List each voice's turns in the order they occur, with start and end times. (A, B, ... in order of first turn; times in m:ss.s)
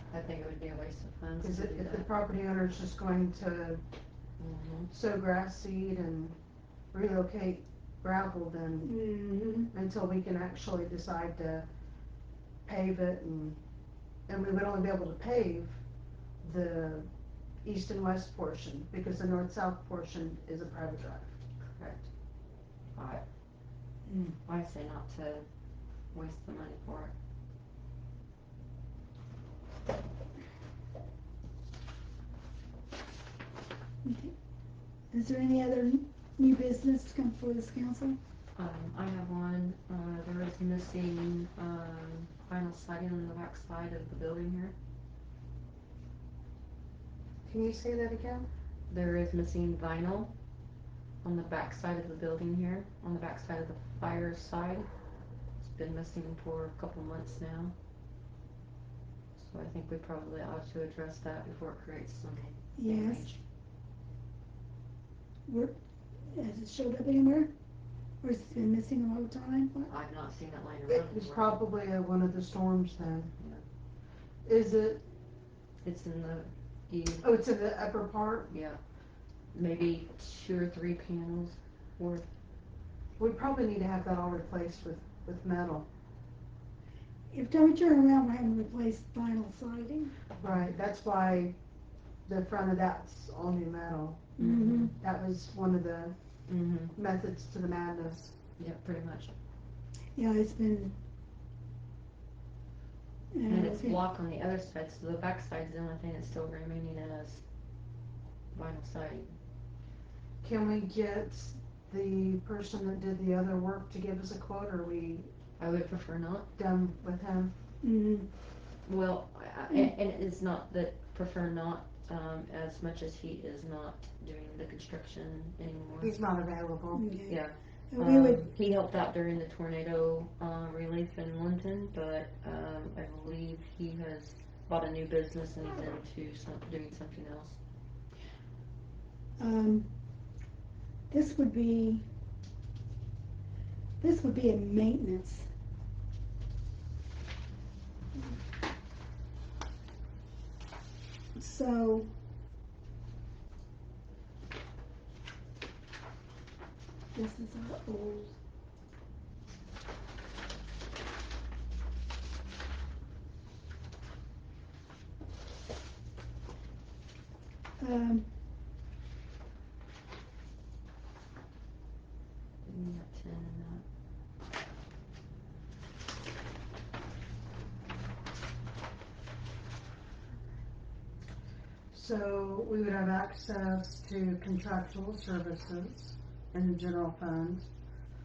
0:00.1-0:02.0 A
0:01.4-0:03.8 B
0:04.4-0:04.9 A
0:04.9-0:06.4 B
0:06.9-0:08.9 B
0:08.8-0:09.7 C
0:09.7-0:11.6 B
0:12.6-0:13.6 B
0:14.3-0:15.8 B
0:16.4-0:17.1 B
0:17.6-0:21.3 B
0:21.6-0:22.1 A
0:23.0-0:23.2 A
0:24.1-0:24.4 C
0:24.4-0:25.4 A
0:26.1-0:27.1 A
0:34.0-0:34.3 C
0:35.1-0:38.2 C
0:38.6-0:44.7 A
0:47.4-0:48.5 B
0:48.9-0:50.3 A
0:51.2-0:54.9 A
0:55.6-0:57.7 A
0:59.4-1:03.4 A
1:02.8-1:03.3 C
1:05.5-1:05.7 C
1:06.3-1:07.5 C
1:08.2-1:09.9 C
1:09.9-1:11.6 A
1:10.9-1:13.3 B
1:13.4-1:13.6 A
1:14.4-1:15.0 B
1:15.8-1:17.3 A
1:17.2-1:18.5 B
1:18.5-1:18.8 A
1:19.5-1:22.3 A
1:23.2-1:25.9 B
1:27.3-1:30.1 C
1:30.4-1:31.6 B
1:32.2-1:34.4 B
1:34.4-1:35.0 C
1:34.4-1:34.9 A
1:34.9-1:36.2 B
1:36.5-1:36.9 A
1:36.9-1:38.4 B
1:38.6-1:39.3 A
1:40.2-1:41.0 C
1:43.3-1:44.0 C
1:43.5-1:47.4 A
1:48.5-1:49.3 A
1:50.4-1:55.3 B
1:55.6-1:56.5 A
1:56.6-1:57.5 B
1:57.8-1:58.3 C
1:58.8-2:06.2 A
1:59.7-1:59.9 C
2:06.0-2:07.0 B
2:06.9-2:08.4 C
2:07.3-2:17.6 A
2:19.4-2:19.9 C
2:21.1-2:22.1 C
2:24.0-2:25.5 C
2:31.4-2:32.1 C
2:37.1-2:38.4 C
2:47.8-2:48.4 C
2:52.6-2:53.8 A
3:01.9-3:07.7 B